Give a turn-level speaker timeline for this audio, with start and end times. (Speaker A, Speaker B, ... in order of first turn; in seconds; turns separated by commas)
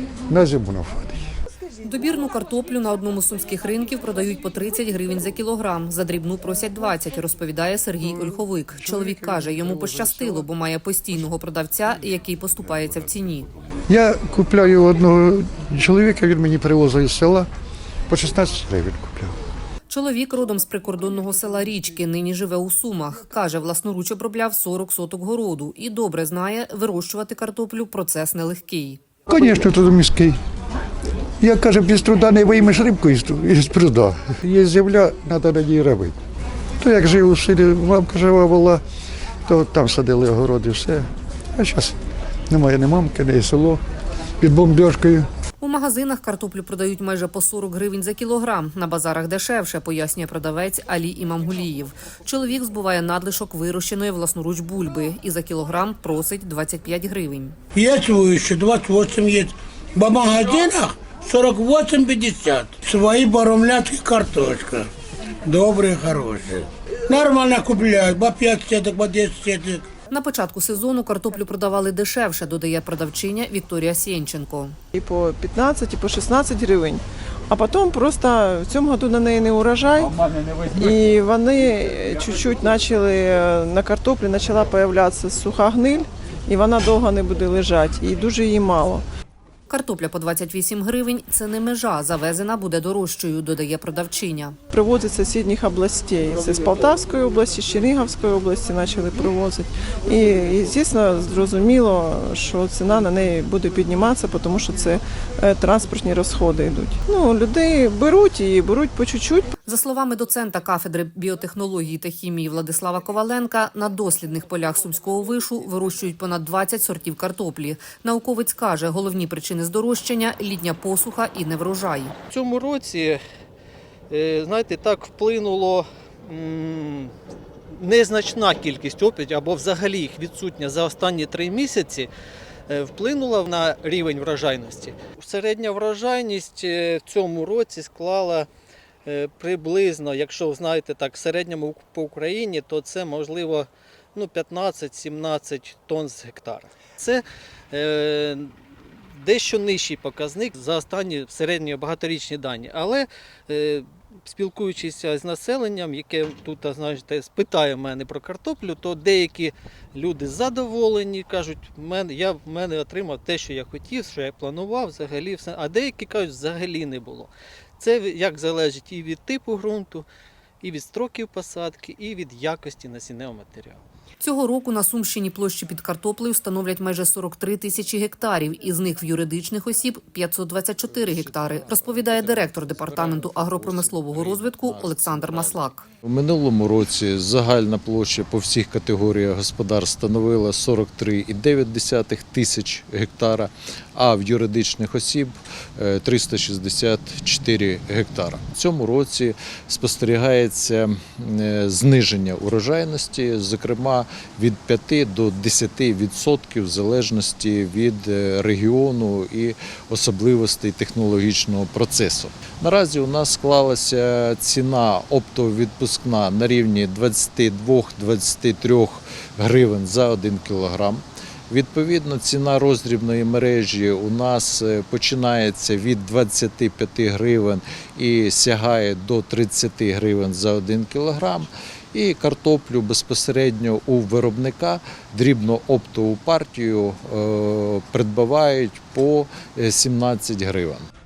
Speaker A: 0.3-1.3, Speaker B: 1.8-13.5, Speaker A: 8.0-10.5, Speaker A: 13.9-17.5, Speaker A: 18.1-19.3, Speaker B: 19.9-29.0, Speaker A: 29.3-30.4, Speaker A: 31.4-36.2, Speaker A: 36.8-38.8, Speaker A: 39.5-42.0, Speaker A: 42.5-43.8, Speaker A: 44.4-45.3, Speaker B: 45.6-57.5, Speaker C: 57.7-64.9, Speaker C: 65.4-69.9, Speaker B: 70.1-74.8, Speaker D: 74.9-89.0, Speaker B: 89.7-94.5, Speaker D: 94.7-109.5, Speaker B: 109.6-122.1, Speaker E: 122.3-123.2, Speaker E: 124.1-127.1, Speaker E: 127.7-132.1, Speaker E: 132.7-138.5, Speaker E: 139.1-148.5, Speaker E: 149.2-170.1, Speaker E: 170.6-173.8, Speaker B: 174.2-185.9, Speaker F: 180.8-240.9